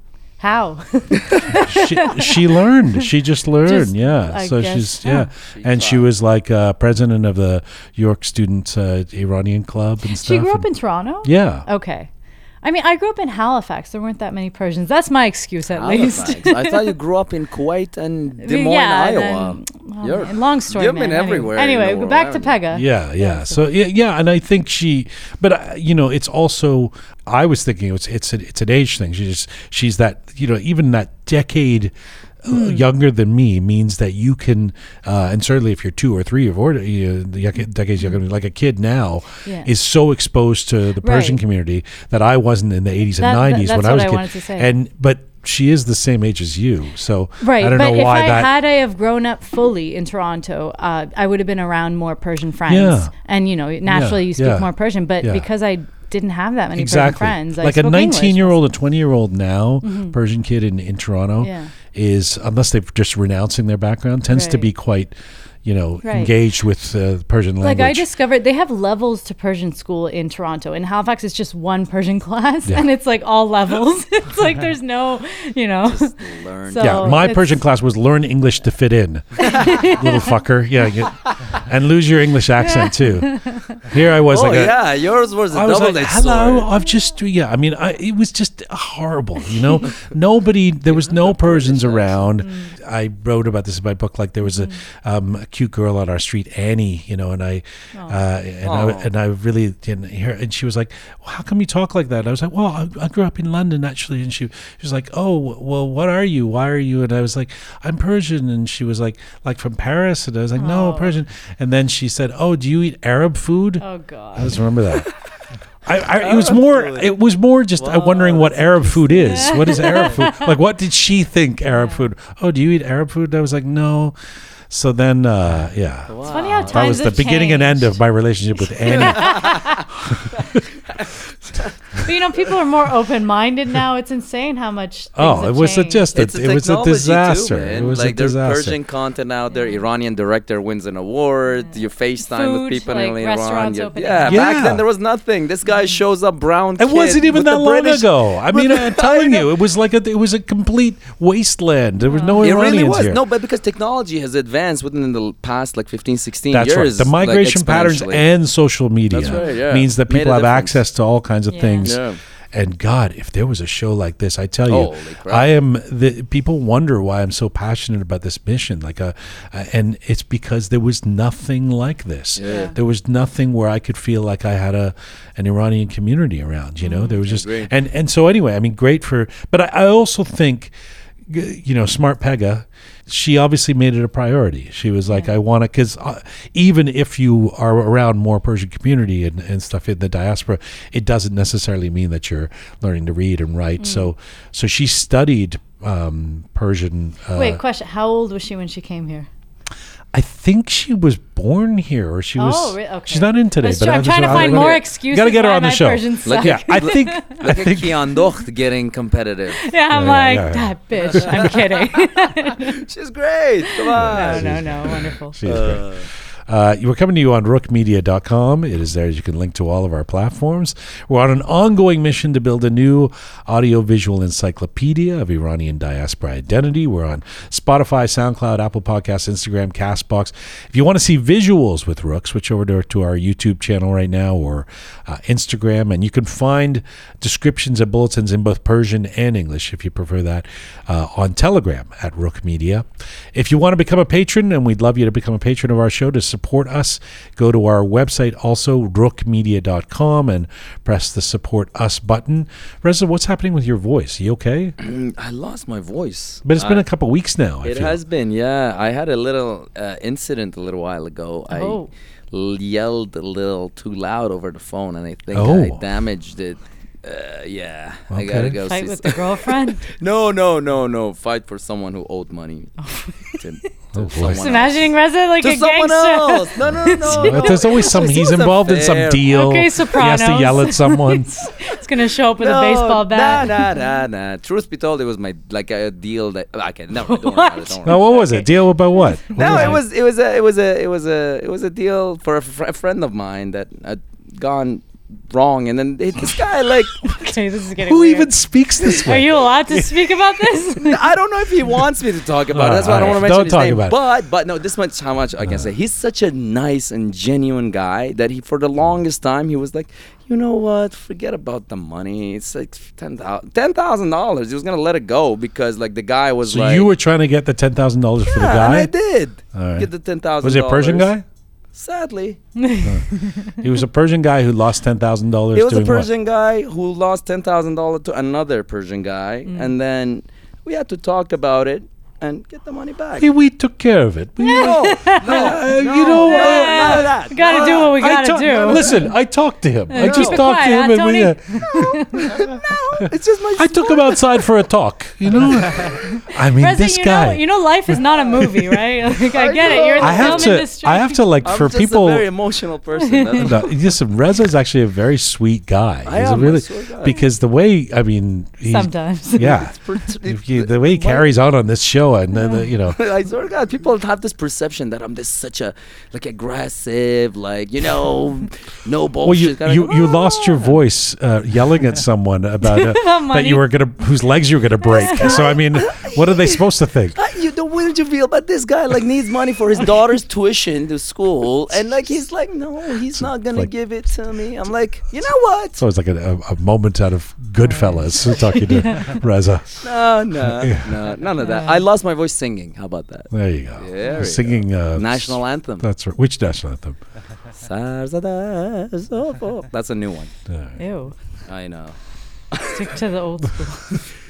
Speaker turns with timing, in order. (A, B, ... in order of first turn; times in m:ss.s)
0:00.4-0:02.3 A
0:01.7-0:11.7 B
0:03.6-0:05.3 A
0:05.5-0:06.1 C
0:10.1-0:16.9 A
0:15.8-0:22.6 C
0:18.4-0:23.6 A
0:22.7-0:48.5 B
0:32.5-0:32.8 A
0:39.4-0:39.7 A
0:41.0-0:41.4 A
0:43.2-0:44.7 A
0:47.4-0:58.6 A
0:52.7-0:55.5 B
0:56.7-1:08.1 B
0:59.8-1:00.2 A
1:01.4-1:01.7 A
1:04.3-1:04.7 A
1:06.0-1:06.3 A
1:07.6-1:17.6 A
1:15.8-1:17.3 C
1:16.8-1:24.8 B
1:19.5-1:20.2 A
1:22.6-1:23.8 A
1:24.3-1:26.7 C
1:25.5-1:55.1 B
1:30.9-1:32.3 C
1:32.4-1:32.8 A
1:34.5-1:34.8 A
1:37.9-1:38.2 A
1:38.6-1:39.1 C
1:50.6-1:51.2 A
1:53.8-1:54.6 A
1:55.8-2:04.2 B
1:56.2-1:57.2 C
1:57.8-2:00.1 C
1:59.3-2:00.3 A
2:01.7-2:02.0 A
2:04.7-2:09.5 B
2:06.1-2:07.2 C
2:06.3-2:08.0 A
2:08.9-2:09.8 C
2:08.9-2:09.8 A
2:10.1-2:10.6 B
2:12.0-2:16.1 A
2:15.2-2:18.8 B
2:16.2-2:29.6 C
2:19.5-2:19.8 A
2:21.6-2:24.5 A
2:24.3-2:24.8 B
2:26.8-2:33.2 B
2:32.0-2:32.4 A
2:32.4-2:38.2 C
2:36.5-3:00.7 B
2:39.1-2:40.8 C
2:39.3-2:39.6 A
2:41.5-2:42.0 A
2:41.8-2:42.2 C
2:44.7-2:45.5 C
2:52.4-2:52.7 C
2:52.4-2:52.8 A
2:56.8-2:57.2 A
2:57.2-2:57.7 C
3:01.3-3:17.6 B
3:13.8-3:14.1 A
3:17.3-3:19.3 A
3:20.1-3:28.0 B
3:22.4-3:27.4 A
3:24.2-3:24.8 C
3:26.2-3:29.7 C
3:29.6-3:32.7 A
3:29.9-3:31.4 B
3:31.0-3:32.2 C
3:32.8-3:34.7 C
3:33.8-3:35.4 A
3:33.9-4:14.8 B
3:35.4-3:36.1 C
4:14.8-4:16.9 C
4:16.4-4:18.0 B
4:17.6-4:39.2 C
4:21.5-4:21.9 A
4:25.3-4:25.8 B
4:28.1-4:28.6 B
4:28.7-4:29.9 A
4:32.8-4:33.4 A
4:33.9-4:34.4 B
4:34.3-4:38.4 A
4:36.6-4:41.3 B
4:39.3-4:43.8 A
4:42.4-4:48.4 C
4:47.1-4:49.8 A
4:47.8-4:49.8 B
4:49.4-4:57.1 C
4:57.0-4:58.3 A
4:57.8-4:59.9 B
4:58.9-5:01.0 A
5:00.8-5:16.9 C
5:02.5-5:04.0 B
5:16.4-5:18.9 B
5:18.3-5:21.2 C
5:19.5-5:21.2 B
5:21.7-5:22.5 C
5:22.6-5:23.5 A
5:22.8-5:26.1 B
5:25.5-5:33.3 C
5:29.5-5:29.8 A
5:33.2-5:42.2 B
5:34.4-5:35.6 A
5:34.5-5:37.9 C
5:36.2-5:38.8 A
5:38.7-5:39.0 C
5:39.9-5:42.3 A
5:40.0-5:40.4 C
5:42.3-5:44.4 C
5:43.6-5:48.0 B
5:46.1-5:51.3 A
5:49.3-5:50.7 C
5:50.0-5:52.3 B
5:51.4-5:53.8 C
5:53.0-5:53.4 A
5:53.4-6:03.0 B
5:56.1-5:57.2 C
5:58.6-5:59.6 A
5:59.4-6:01.3 C
6:02.4-6:02.6 A
6:02.9-6:10.7 C
6:09.2-6:17.2 B
6:12.7-6:13.6 A
6:14.8-6:15.5 A
6:15.1-6:16.5 C
6:17.2-6:25.8 C
6:23.2-6:23.7 B
6:25.8-6:30.8 B
6:27.6-6:29.2 A
6:29.8-6:35.9 C
6:31.4-6:31.8 A
6:33.3-6:37.0 B
6:37.6-6:40.4 C
6:40.5-6:40.8 B
6:40.8-6:41.2 A
6:41.5-6:42.0 C
6:42.7-6:43.9 A